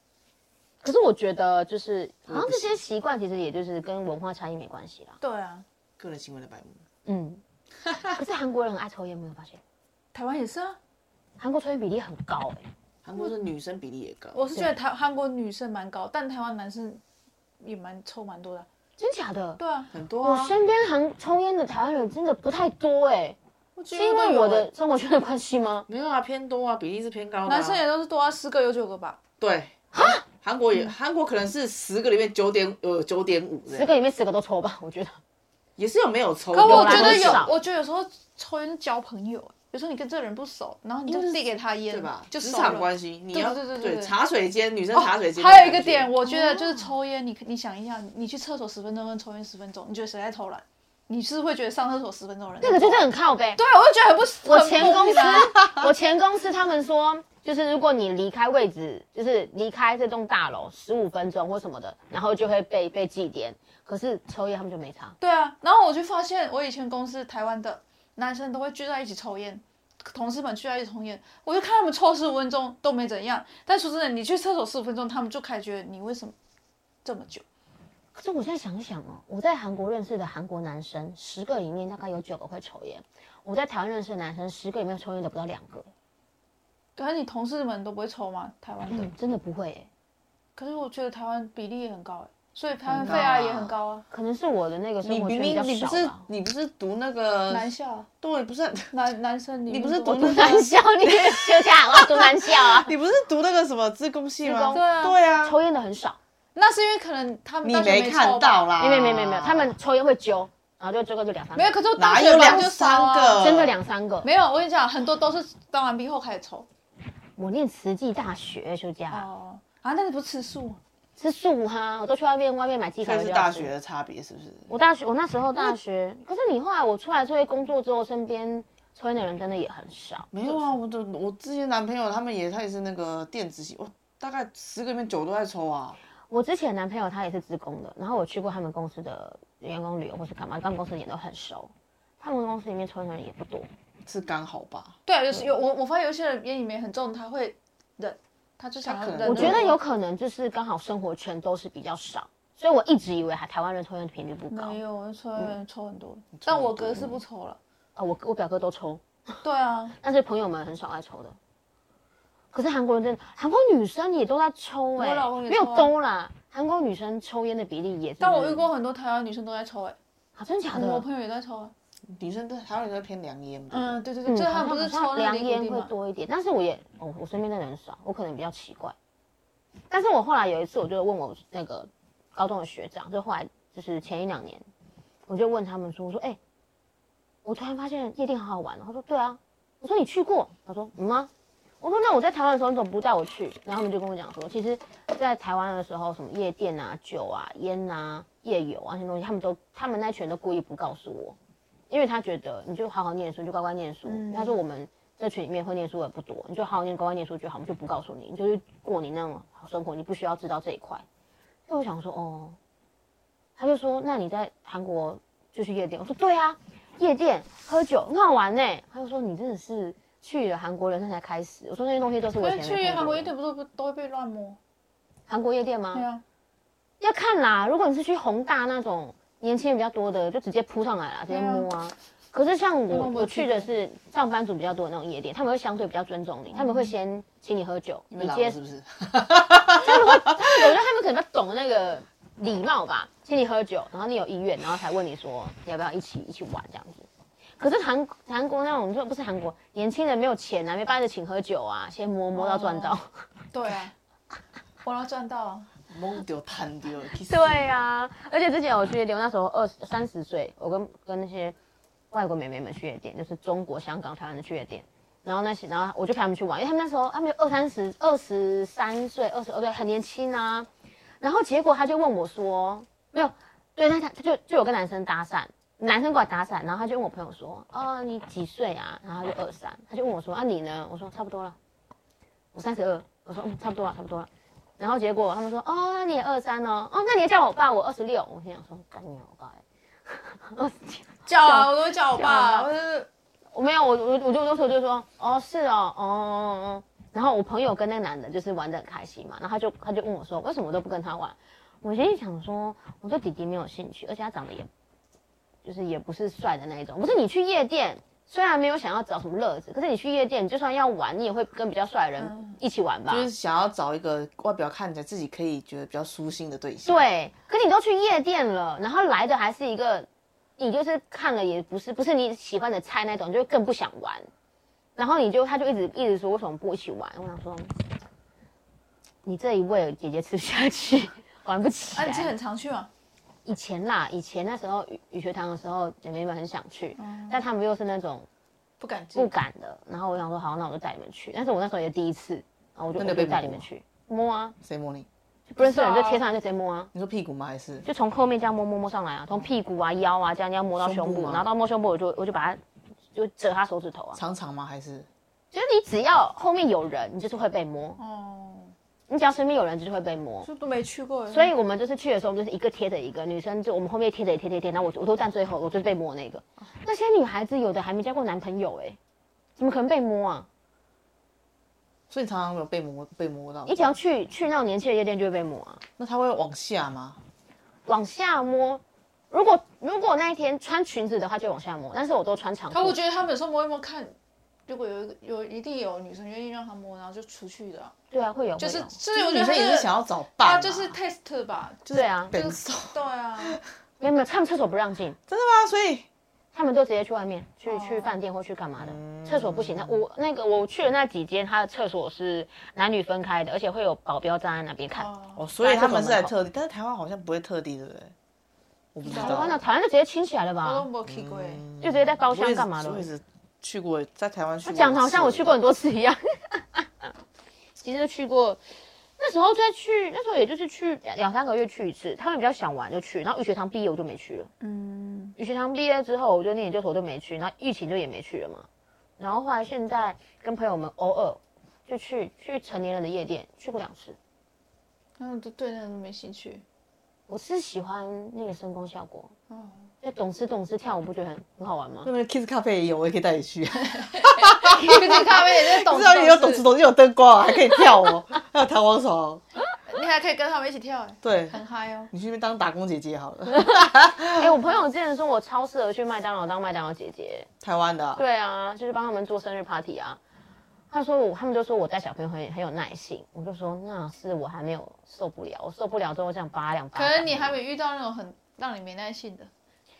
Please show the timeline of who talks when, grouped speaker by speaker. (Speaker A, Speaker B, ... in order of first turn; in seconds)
Speaker A: 0.8-5.2, 7.1-7.4, 8.1-9.6, 11.4-12.7, 19.0-19.6, 20.2-23.4, 23.9-25.9, 29.9-30.2, 33.7-35.2, 36.6-37.6, 46.2-46.9, 52.6-53.6, 54.5-65.2, 78.2-85.9, 88.9-89.9, 92.9-96.3, 100.1-102.9, 104.4-104.9, 105.4-106.2, 108.8-111.7, 113.4-114.3, 117.4-119.3, 121.2-123.7, 124.7-130.7, 136.3-143.7, 149.2-154.8, 158.0-159.0, 160.0-161.4, 162.5-168.7, 170.4-171.1, 174.2-178.9, 179.9-184.7, 185.3-186.4, 187.4-191.3, 191.8-201.4, 201.9-211.1, 211.7-212.6, 213.6-223.3, 225.3-226.1, 227.0-238.6, 239.7-247.1, 247.6-253.2, 257.2-261.6, 262.1-270.7, 271.2-281.6, 282.5-292.7, 293.5-304.7, 305.6-313.3, 316.9-324.3, 325.0-327.8, 329.2-332.3, 333.4-338.3, 339.1-344.6, 345.5-346.9, 347.9-352.6, 353.1-354.2, 355.5-358.0, 359.1-360.5, 361.3-369.0, 369.6-370.5, 373.7-375.8, 377.9-383.0, 388.1-389.0, 391.9-392.4, 394.0-395.2, 396.5-406.3, 409.1-410.9, 411.8-413.1, 414.6-417.1, 417.8-418.6, 419.2-424.5, 425.4-428.7, 429.2-434.2, 437.3-439.3, 440.0-442.1, 453.5-457.5, 458.2-460.2, 460.9-467.6
Speaker B: 2.3-2.8, 6.0-6.8, 13.0-14.4, 19.9-20.6, 25.9-27.8, 29.4-33.9, 35.8-37.5, 41.1-46.1, 92.9-93.7, 95.0-97.7, 98.2-98.9, 99.7-105.6, 107.6-109.8, 112.0-113.8, 123.0-124.7, 130.3-136.0, 144.1-144.9, 148.8-149.6, 156.3-157.2, 172.1-174.0, 238.1-240.7, 255.9-257.8, 313.1-317.0, 343.0-343.7, 344.6-345.1, 346.9-347.9, 350.8-351.5, 354.1-355.1, 372.1-374.0, 376.0-377.2, 389.1-391.0, 391.9-393.6, 395.3-396.1, 398.8-400.0, 405.4-408.1, 408.9-409.6, 411.1-415.6, 442.0-449.4, 451.2-451.6, 452.1-454.6, 457.6-458.2
Speaker C: 5.2-5.7, 10.1-10.8, 14.3-17.0, 17.6-18.7, 19.6-19.9, 23.8-24.7, 27.4-29.2, 36.5-44.1, 44.9-55.9, 65.2-76.3, 77.0-77.4, 87.0-89.1, 90.6-94.1, 97.5-98.1, 98.9-100.6, 104.7-105.2, 106.5-108.7, 111.5-113.5, 114.2-116.7, 119.1-120.8, 145.1-149.8, 154.5-157.6, 159.4-160.0, 165.0-165.9, 168.2-170.0, 170.7-171.7, 173.7-175.9, 204.1-204.6, 222.4-224.6, 225.9-226.2, 231.3-231.7, 232.9-233.7, 236.5-236.9, 252.3-253.0, 253.5-253.9, 254.8-255.7, 291.3-293.1, 312.2-312.6, 331.9-332.9, 337.0-337.4, 338.8-339.3, 345.6-346.3, 358.0-358.8, 360.4-361.5, 382.7-384.1, 384.7-387.9, 388.6-393.6, 397.7-398.1, 404.9-405.4, 409.1-409.6, 410.6-411.6, 424.6-425.4, 435.2-436.6, 439.5-439.9, 443.9-446.7, 449.9-452.1, 466.9-469.5